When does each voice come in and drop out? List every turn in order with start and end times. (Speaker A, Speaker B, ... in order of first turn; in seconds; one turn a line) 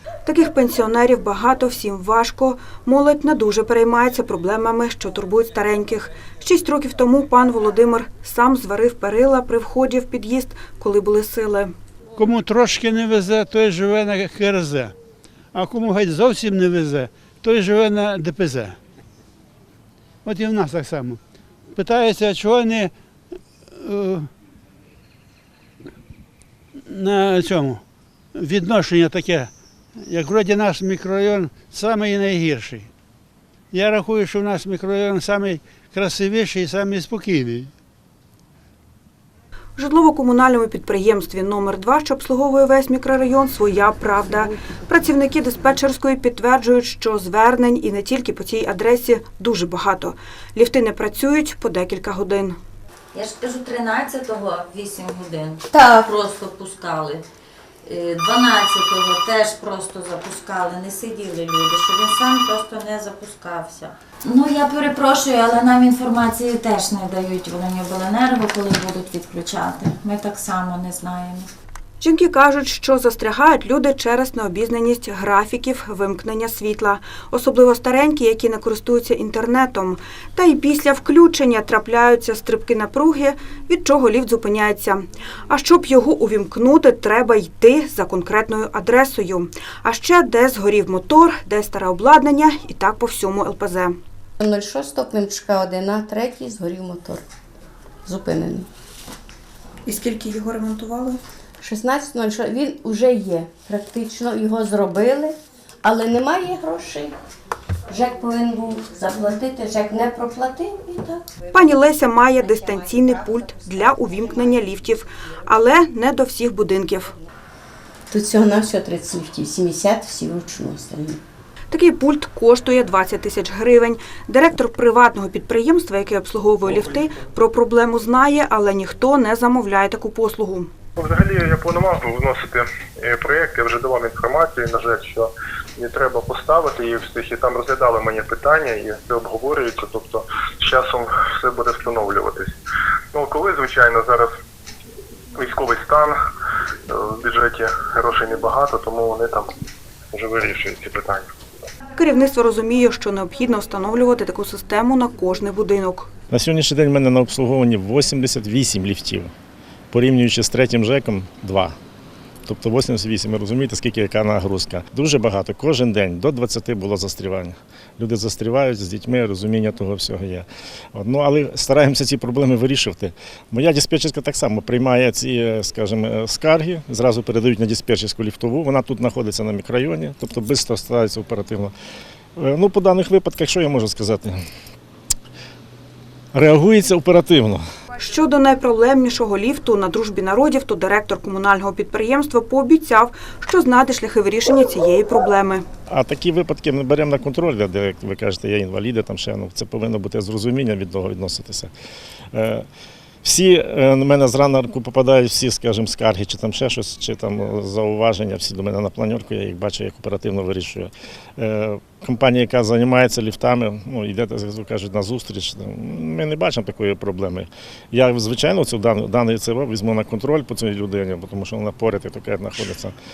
Speaker A: 0.2-11.7
Speaker B: 12.2-14.9
Speaker B: 15.5-18.8
Speaker B: 20.2-21.2
Speaker B: 21.7-22.9
Speaker B: 23.7-24.3
Speaker B: 26.9-27.8
Speaker B: 28.3-29.5
Speaker B: 30.0-32.9
Speaker B: 33.7-37.7
Speaker A: 39.8-52.6
Speaker C: 53.1-57.2
Speaker C: 57.8-71.5
Speaker A: 72.0-94.0
Speaker D: 94.4-97.2
Speaker D: 98.0-98.7
Speaker A: 99.8-101.2
Speaker D: 101.6-107.1
Speaker D: 107.9-111.4
Speaker A: 111.5-117.1
Speaker D: 118.1-121.2
Speaker A: 121.7-130.7
Speaker E: 131.0-135.3
Speaker E: 135.8-142.5
Speaker E: 143.1-144.3
Speaker E: 145.4-146.1
Speaker E: 147.2-149.4
Speaker E: 150.1-151.2
Speaker A: 151.9-156.1
Speaker F: 156.3-159.3
Speaker F: 159.9-161.8
Speaker F: 162.4-181.7
Speaker F: 182.3-184.4
Speaker F: 186.3-187.6
Speaker A: 188.0-195.6
Speaker F: 195.9-201.7
Speaker F: 202.3-202.7
Speaker F: 203.2-222.9